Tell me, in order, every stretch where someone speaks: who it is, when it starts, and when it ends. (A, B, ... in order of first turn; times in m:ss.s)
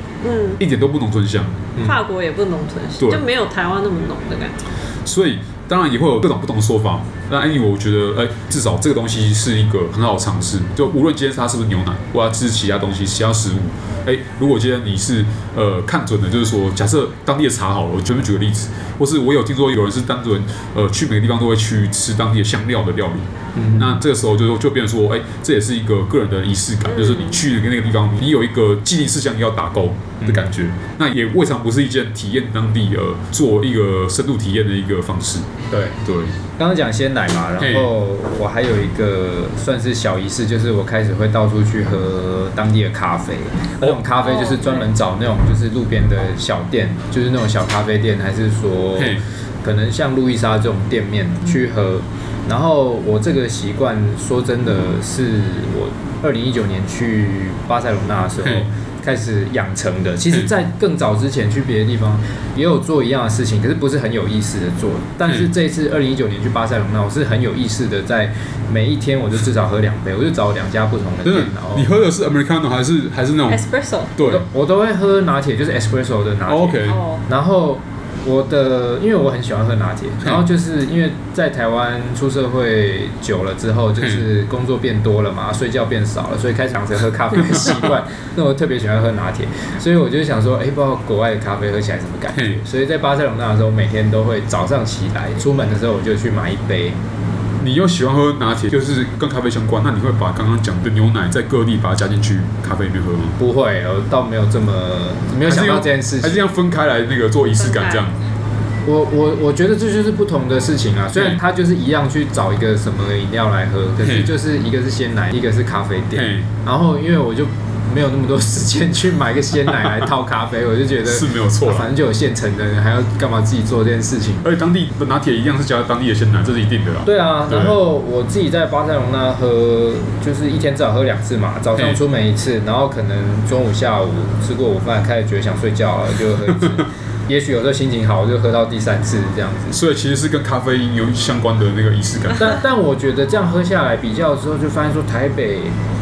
0:00.2-0:00.6 A
0:00.6-0:01.7 B
0:01.8-0:04.7 A
0:03.0-0:03.2 B
0:05.0-0:35.5 B
0:23.5-0:24.0 C
0:27.0-0:27.4 A
0:30.2-0:30.5 C
0:35.7-0:36.0 C
0:36.0-0:36.4 B
0:36.6-1:11.9 C
0:37.6-0:37.9 B
0:44.2-0:44.9 A
0:49.0-0:49.2 B
0:58.4-0:58.7 B
1:11.2-1:13.6 B
1:13.5-1:14.1 A
1:14.1-1:14.4 B
1:14.2-1:37.0 C
1:16.4-1:17.0 B
1:16.8-1:17.2 A
1:24.0-1:24.2 B
1:32.3-1:32.6 B
1:37.6-1:43.4 B
1:43.4-1:46.4 C
1:45.4-1:48.2 B
1:47.5-1:48.1 A
1:48.8-2:04.5 C
1:54.0-1:54.3 B
1:56.1-1:56.5 B
2:01.0-2:01.9 B
2:04.4-2:07.8 B
2:07.0-2:19.8 C
2:11.7-2:12.0 B
2:19.7-2:22.6 B
2:22.3-2:25.7 C